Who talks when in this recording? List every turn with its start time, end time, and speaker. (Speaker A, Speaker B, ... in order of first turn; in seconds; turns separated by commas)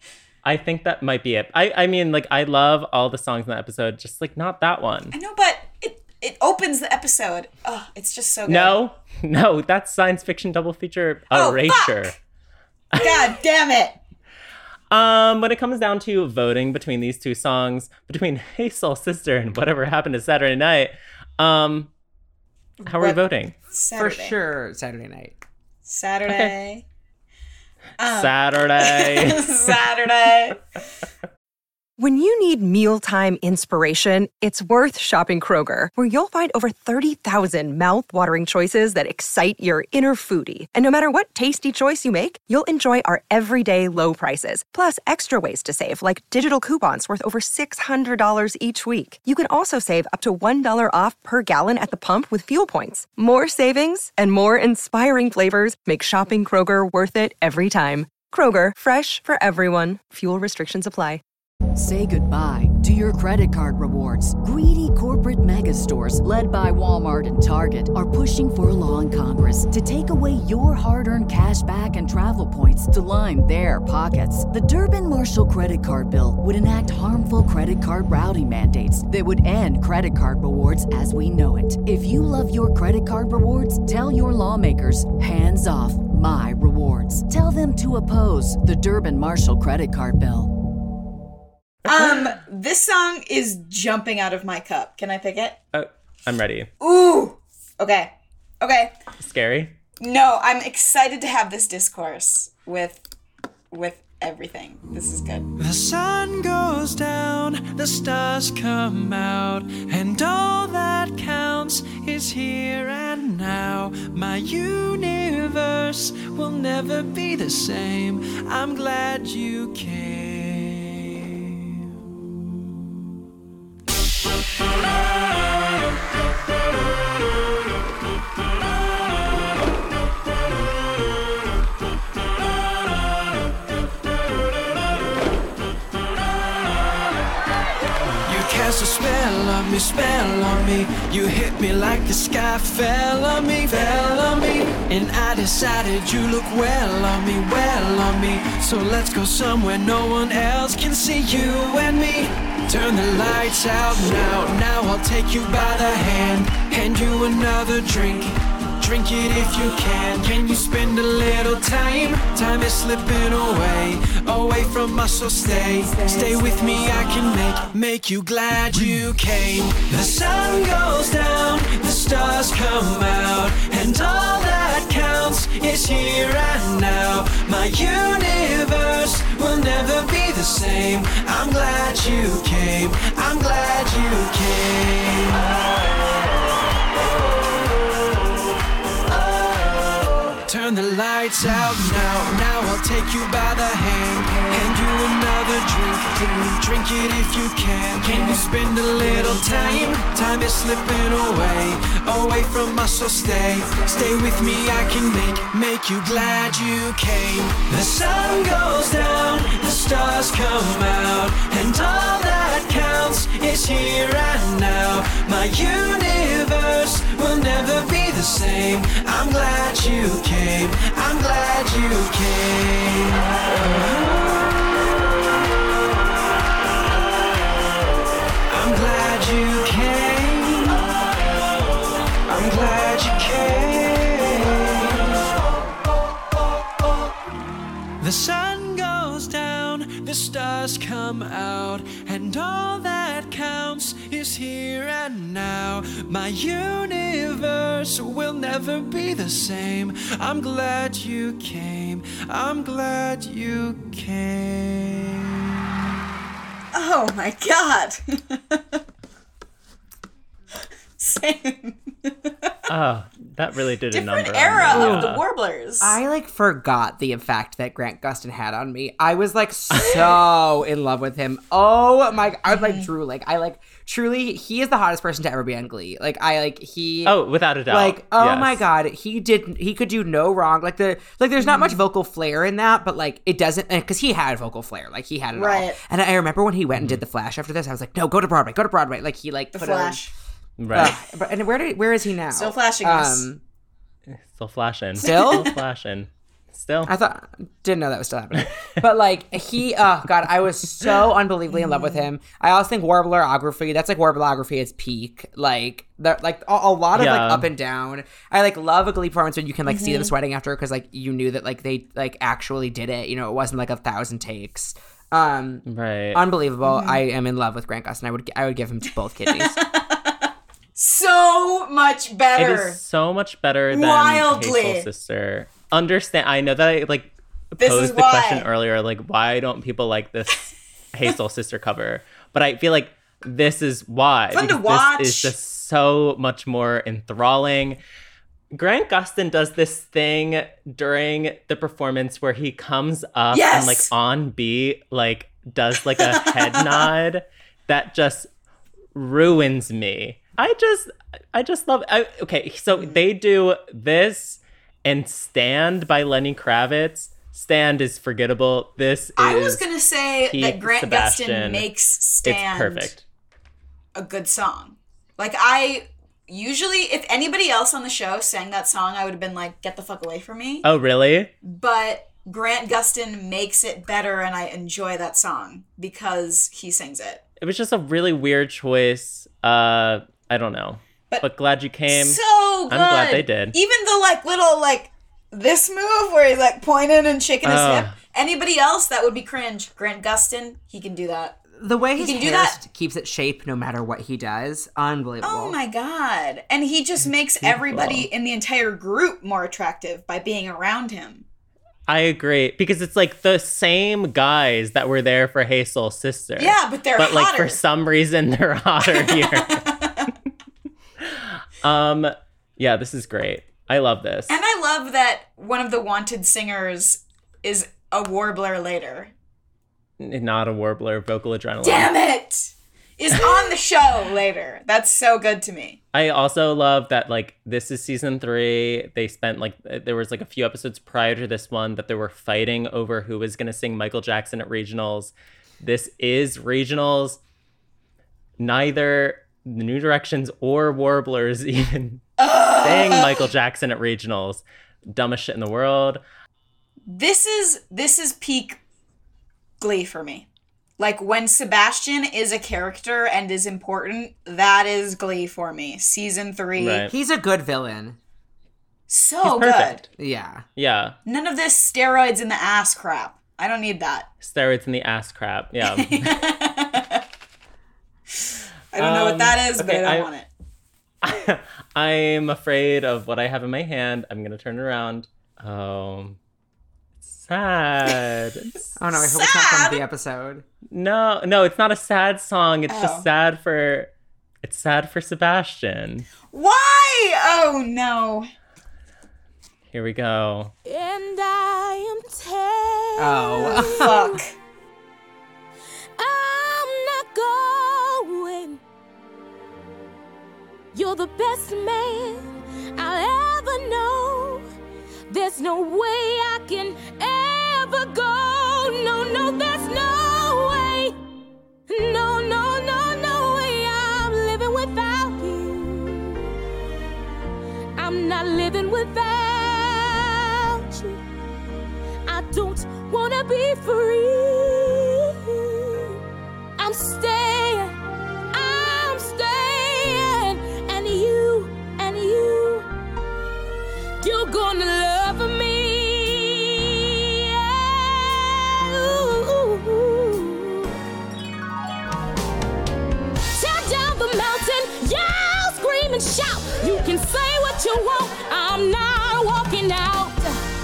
Speaker A: 0.4-5.1, Speaker B: 5.1-8.8, Speaker A: 8.4-12.1, Speaker B: 11.3-12.1, Speaker A: 12.9-13.3, Speaker B: 12.9-14.0, Speaker A: 14.9-21.9, Speaker B: 22.8-24.4, Speaker A: 22.8-23.5, Speaker C: 23.9-25.4, Speaker B: 25.9-26.8, Speaker A: 26.3-26.5, Speaker B: 28.0-30.6, Speaker A: 28.1-29.6, Speaker D: 32.0-61.2, Speaker E: 61.8-90.5, Speaker B: 91.8-95.6, Speaker A: 95.7-96.7, Speaker B: 96.8-98.9, Speaker A: 99.2-99.8, Speaker B: 100.0-103.0, Speaker B: 103.7-105.5, Speaker F: 105.6-121.8, Speaker F: 138.2-185.5, Speaker F: 190.4-224.4, Speaker F: 228.5-230.8, Speaker F: 232.2-235.2, Speaker F: 238.0-255.4, Speaker B: 256.7-258.8, Speaker B: 261.0-262.3, Speaker A: 262.7-265.2, Speaker B: 263.9-266.0, Speaker C: 264.7-265.1, Speaker C: 265.8-290.1, Speaker B: 272.5-272.9, Speaker A: 277.0-278.6, Speaker B: 281.4-281.8, Speaker B: 285.3-285.8, Speaker A: 286.7-287.0, Speaker B: 289.5-290.1, Speaker A: 290.6-290.9, Speaker C: 290.7-293.4, Speaker B: 292.3-293.3, Speaker A: 294.1-296.9, Speaker C: 295.0-295.5, Speaker B: 295.0-295.6, Speaker C: 296.9-319.6, Speaker B: 301.5-302.1, Speaker A: 306.9-307.5, Speaker B: 309.7-310.1, Speaker A: 315.6-316.2, Speaker B: 316.6-317.0, Speaker B: 319.3-322.8, Speaker A: 322.4-337.8, Speaker B: 323.7-324.9, Speaker B: 327.6-328.5, Speaker B: 334.3-335.3, Speaker A: 338.5-348.3, Speaker B: 343.3-343.9, Speaker B: 346.0-346.9, Speaker A: 348.9-359.6, Speaker B: 359.2-362.9, Speaker A: 360.3-361.7, Speaker A: 362.2-363.0, Speaker B: 363.9-370.6, Speaker A: 370.6-371.3, Speaker B: 371.4-377.2, Speaker A: 377.4-383.6, Speaker B: 381.9-391.4, Speaker A: 387.4-387.9, Speaker C: 391.6-395.6, Speaker B: 392.0-392.6, Speaker B: 395.2-401.2, Speaker A: 397.4-398.1, Speaker A: 401.9-409.6, Speaker B: 406.4-407.6, Speaker B: 408.8-410.1, Speaker A: 411.1-414.3, Speaker B: 414.3-419.1, Speaker A: 420.0-421.9, Speaker B: 421.6-425.8, Speaker A: 423.1-423.5, Speaker A: 425.9-437.2, Speaker A: 438.4-442.0, Speaker B: 442.2-443.3, Speaker A: 442.6-446.0, Speaker B: 446.9-448.6, Speaker B: 449.6-450.3, Speaker B: 450.8-456.9, Speaker A: 456.6-456.9, Speaker C: 456.9-458.0, Speaker B: 458.9-459.8, Speaker A: 459.2-459.8, Speaker C: 460.0-460.4, Speaker A: 460.6-460.9, Speaker B: 461.0-464.1, Speaker A: 464.2-466.2, Speaker B: 465.6-467.0, Speaker B: 468.1-470.3, Speaker A: 468.8-470.1, Speaker A: 471.0-476.2, Speaker A: 477.0-478.6, Speaker C: 478.8-480.4, Speaker B: 478.9-479.8, Speaker A: 480.7-483.9, Speaker B: 482.7-483.1, Speaker A: 484.4-486.1, Speaker B: 486.3-488.3, Speaker A: 489.7-490.5, Speaker G: 490.6-494.2, Speaker C: 493.0-494.1, Speaker B: 493.4-494.3, Speaker G: 496.0-498.6, Speaker G: 500.7-504.4, Speaker G: 505.1-511.0, Speaker G: 511.7-516.3, Speaker G: 517.8-521.0, Speaker G: 522.0-526.0, Speaker G: 526.6-527.8, Speaker G: 528.3-532.7, Speaker G: 534.0-540.7, Speaker G: 543.3-550.4